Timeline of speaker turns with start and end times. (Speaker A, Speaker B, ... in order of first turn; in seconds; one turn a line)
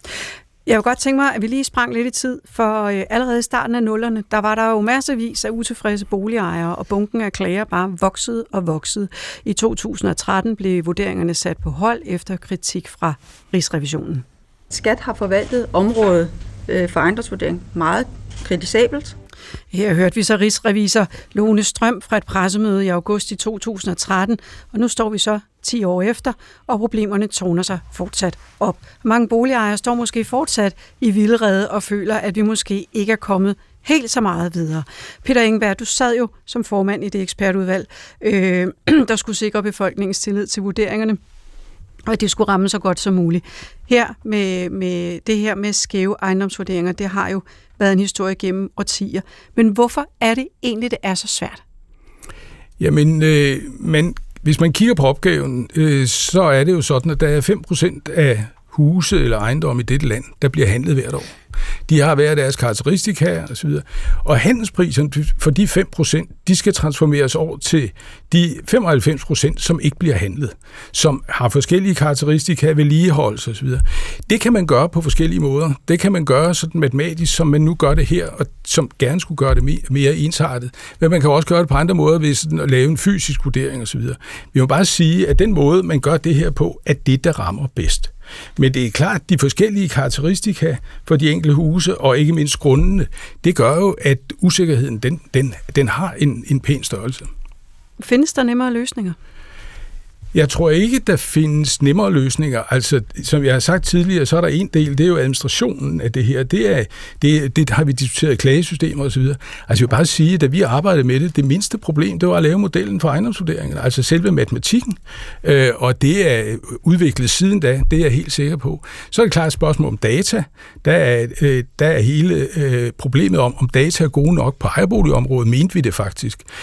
Speaker A: 0.7-14.2
Speaker B: 14.7-19.1
Speaker A: 19.7-41.2
Speaker A: 42.1-51.6
Speaker C: 52.8-61.3
Speaker C: 61.9-97.3
Speaker A: 98.0-99.2
Speaker C: 100.3-126.4